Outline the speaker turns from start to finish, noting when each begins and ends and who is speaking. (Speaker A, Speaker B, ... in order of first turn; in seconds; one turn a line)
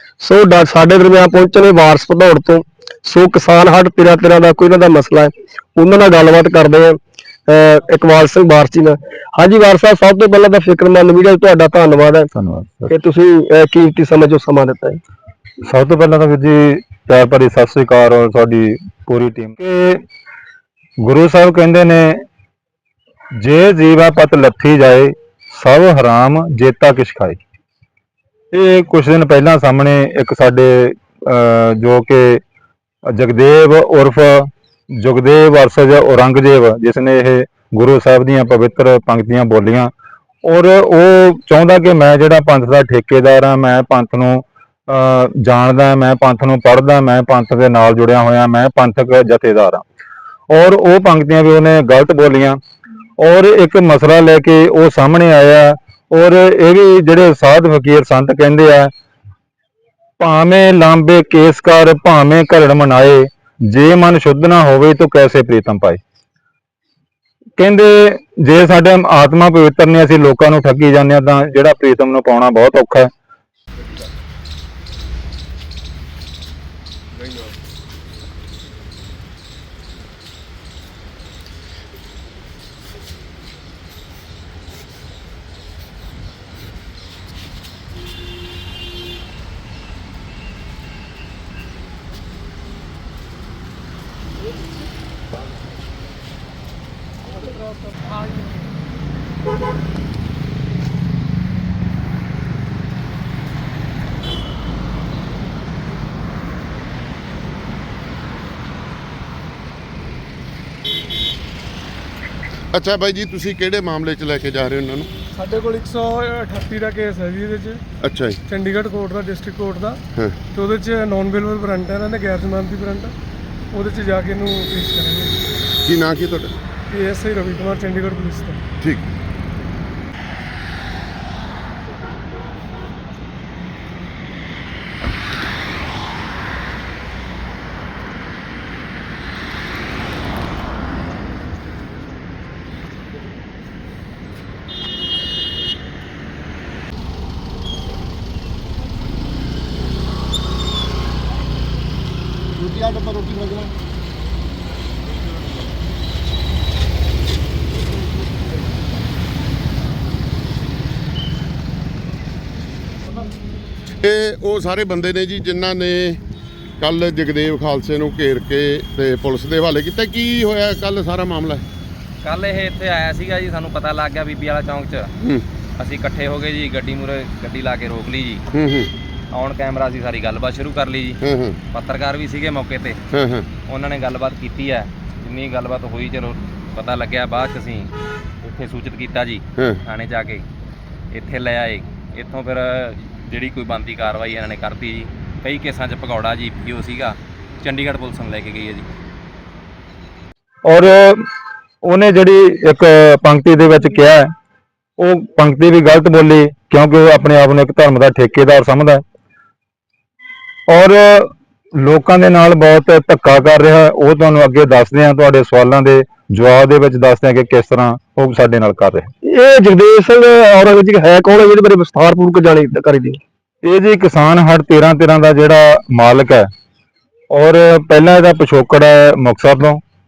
Speaker A: 0.2-7.0
Speaker A: 7.5-12.3
Speaker B: 12.3-12.9
Speaker A: 12.9-15.0
Speaker B: 15.6-20.0
Speaker B: 21.0-22.2
Speaker B: 23.4-27.4
Speaker B: 28.5-32.4
Speaker B: 33.1-39.9
Speaker B: 40.4-49.8
Speaker B: 50.5-52.6
Speaker B: 53.2-58.9
Speaker B: 60.2-66.0
Speaker B: 67.6-73.1
Speaker C: 112.7-115.1
Speaker D: 115.3-117.8
Speaker C: 118.0-118.4
Speaker D: 118.5-120.0
Speaker D: 120.5-123.1
Speaker D: 123.7-125.3
Speaker C: 125.8-126.5
Speaker D: 126.9-128.6
Speaker C: 164.0-166.2
Speaker C: 166.8-171.6
Speaker E: 172.2-175.1
Speaker C: 175.2-175.4
Speaker E: 175.8-178.4
Speaker C: 178.5-178.9
Speaker E: 179.3-181.2
Speaker C: 181.2-181.6
Speaker E: 181.7-183.0
Speaker C: 183.1-183.5
Speaker E: 183.7-187.9
Speaker E: 188.4-190.4
Speaker E: 191.1-198.9
Speaker B: 200.7-201.2
Speaker B: 201.8-204.3
Speaker B: 205.0-209.0
Speaker B: 210.7-219.1
Speaker A: 219.2-223.2
Speaker B: 223.6-226.5
Speaker B: 227.3-229.8